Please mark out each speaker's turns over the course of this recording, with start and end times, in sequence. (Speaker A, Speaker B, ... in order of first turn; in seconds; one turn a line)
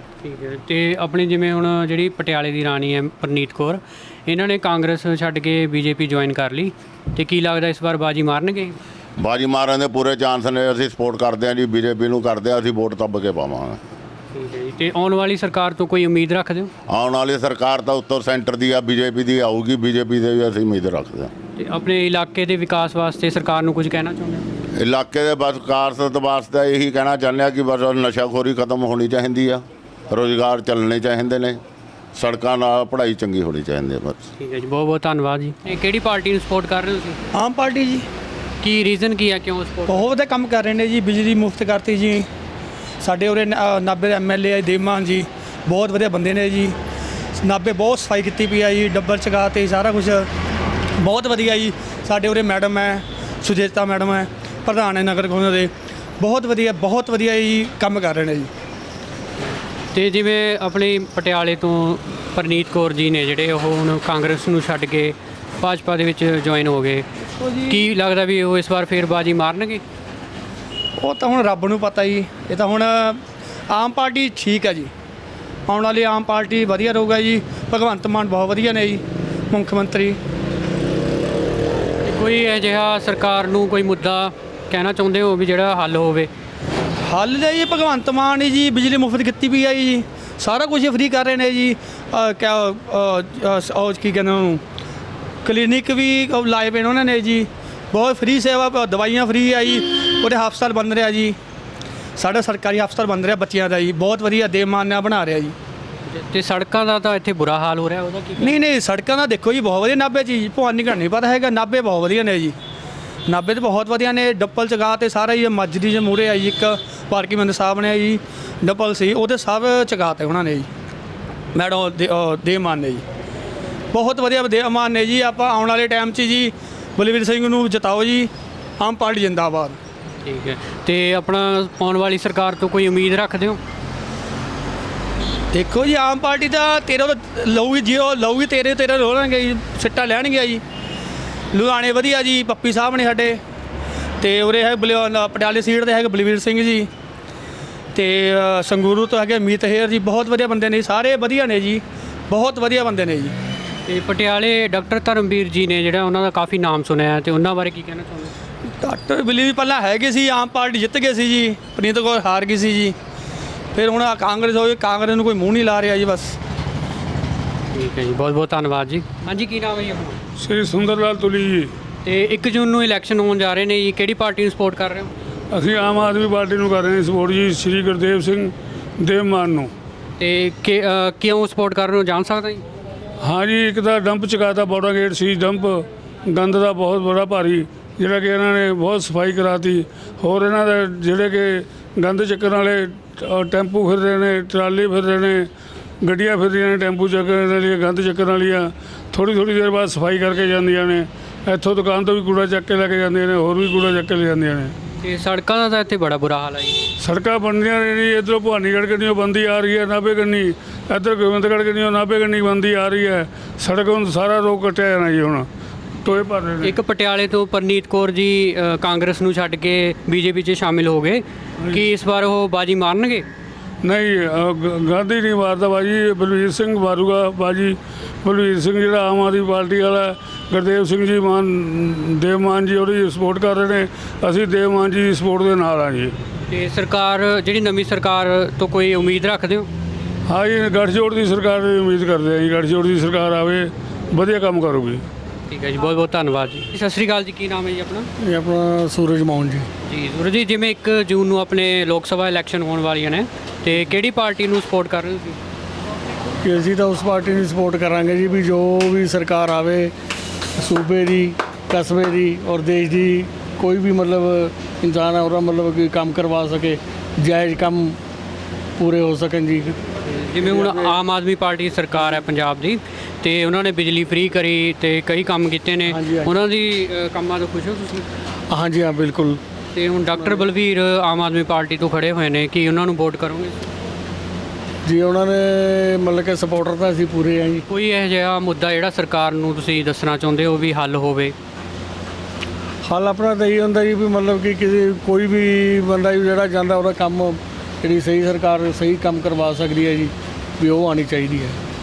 Speaker A: 0.2-8.8
Speaker B: 9.2-13.8
Speaker A: 14.3-16.7
Speaker B: 16.9-21.3
Speaker A: 21.6-24.5
Speaker B: 24.8-31.6
Speaker B: 32.1-34.2
Speaker A: 34.4-37.2
Speaker C: 37.3-38.1
Speaker A: 38.6-40.1
Speaker C: 39.9-42.3
Speaker C: 43.0-46.8
Speaker C: 47.4-50.3
Speaker C: 51.0-58.5
Speaker A: 59.9-67.1
Speaker C: 67.4-67.8
Speaker A: 67.7-69.8
Speaker C: 71.0-74.9
Speaker C: 75.7-80.2
Speaker A: 82.0-86.3
Speaker C: 87.1-94.6
Speaker C: 95.5-101.4
Speaker C: 102.2-105.5
Speaker A: 106.1-108.6
Speaker C: 108.4-112.5
Speaker C: 113.3-120.7
Speaker C: 121.5-123.0
Speaker C: 123.9-129.8
Speaker A: 130.2-133.6
Speaker C: 135.5-140.6
Speaker C: 141.5-143.4
Speaker C: 144.2-146.9
Speaker C: 147.9-153.3
Speaker A: 153.9-158.3
Speaker C: 158.8-163.0
Speaker C: 163.8-166.4
Speaker A: 167.7-170.2
Speaker D: 170.4-171.7
Speaker A: 172.1-175.1
Speaker D: 175.5-179.7
Speaker A: 180.2-182.6
Speaker D: 183.2-195.5
Speaker D: 196.0-204.8
Speaker A: 205.0-206.8
Speaker D: 207.0-215.5
Speaker D: 216.0-216.8
Speaker A: 216.6-223.3
Speaker D: 223.8-236.2
Speaker A: 236.5-239.7
Speaker D: 240.3-245.0
Speaker A: 245.5-248.1
Speaker E: 248.2-249.7
Speaker A: 249.8-255.4
Speaker E: 256.4-259.9
Speaker E: 260.6-268.0
Speaker E: 268.8-269.8
Speaker A: 270.1-278.1
Speaker E: 270.4-271.0
Speaker E: 275.9-276.3
Speaker E: 278.5-279.4
Speaker A: 279.7-283.6
Speaker E: 280.1-280.5
Speaker E: 284.9-287.6
Speaker A: 287.7-291.4
Speaker E: 292.8-301.6